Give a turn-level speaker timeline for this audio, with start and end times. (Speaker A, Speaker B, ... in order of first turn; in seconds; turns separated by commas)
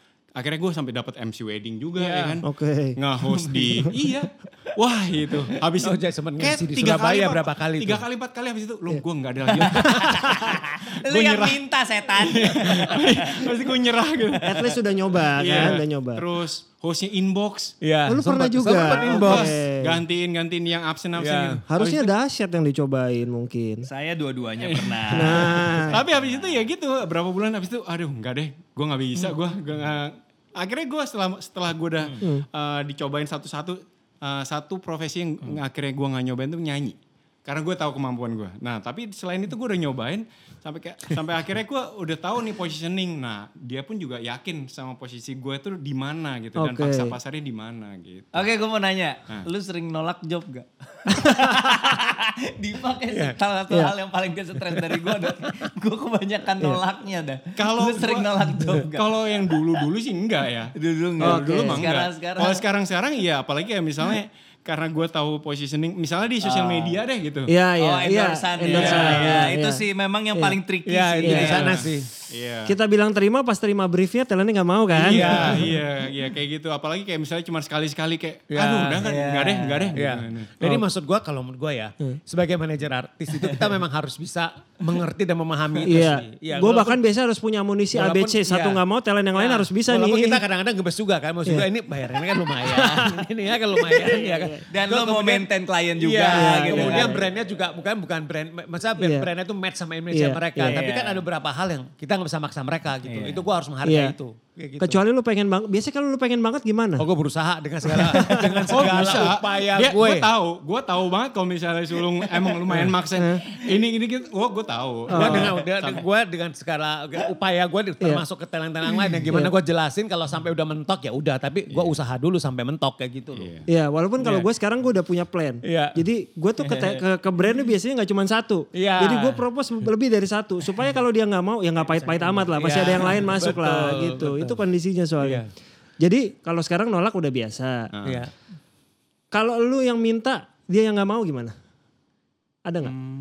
Speaker A: 0.4-11.6, Speaker B: 2.0-2.4, Speaker C: 2.4-3.0, Speaker D: 3.4-3.7, Speaker C: 3.6-3.9, Speaker B: 5.8-8.0, Speaker D: 9.6-14.7, Speaker B: 9.6-10.0, Speaker C: 9.7-10.4, Speaker A: 12.1-17.8, Speaker C: 14.4-16.2, Speaker B: 17.8-19.5, Speaker C: 18.1-20.0, Speaker A: 18.8-22.1, Speaker B: 21.2-21.6, Speaker C: 21.7-23.9, Speaker D: 23.9-26.7, Speaker A: 24.6-48.4, Speaker C: 25.1-26.0, Speaker C: 46.6-47.2, Speaker D: 48.3-59.9, Speaker C: 51.1-51.7, Speaker B: 53.1-53.4, Speaker B: 54.7-55.5, Speaker A: 57.6-67.5, Speaker D: 60.8-62.6, Speaker C: 61.2-61.8, Speaker D: 66.4-67.0, Speaker C: 67.5-69.8, Speaker D: 67.8-71.9, Speaker B: 68.7-69.3, Speaker A: 68.8-69.3, Speaker B: 70.9-72.1, Speaker C: 71.2-71.7, Speaker A: 71.5-72.7, Speaker C: 72.7-75.7, Speaker B: 74.9-75.8, Speaker A: 75.0-80.5, Speaker B: 78.5-79.1, Speaker D: 79.0-80.0, Speaker B: 79.9-87.0, Speaker D: 83.4-83.7, Speaker C: 85.8-90.4, Speaker B: 87.9-88.8, Speaker B: 89.4-95.5, Speaker C: 92.6-94.6, Speaker D: 94.7-97.2, Speaker B: 96.0-105.0, Speaker C: 96.3-97.3, Speaker C: 99.0-99.3, Speaker C: 100.1-100.8, Speaker D: 100.6-101.2, Speaker D: 103.0-103.4, Speaker C: 103.8-104.2, Speaker C: 104.8-107.1, Speaker B: 107.0-110.3, Speaker C: 107.8-109.2, Speaker A: 108.7-116.0, Speaker C: 113.1-113.5, Speaker C: 115.1-115.5, Speaker B: 115.1-123.5, Speaker C: 119.3-119.5, Speaker A: 121.7-122.0, Speaker A: 123.4-123.7, Speaker C: 123.7-135.4, Speaker B: 124.2-124.5, Speaker B: 125.6-126.0, Speaker B: 128.7-129.4, Speaker B: 131.9-134.6, Speaker B: 135.2-135.5, Speaker C: 136.0-137.9, Speaker A: 137.9-138.3, Speaker B: 138.1-138.3, Speaker C: 139.3-141.5, Speaker C: 142.7-142.9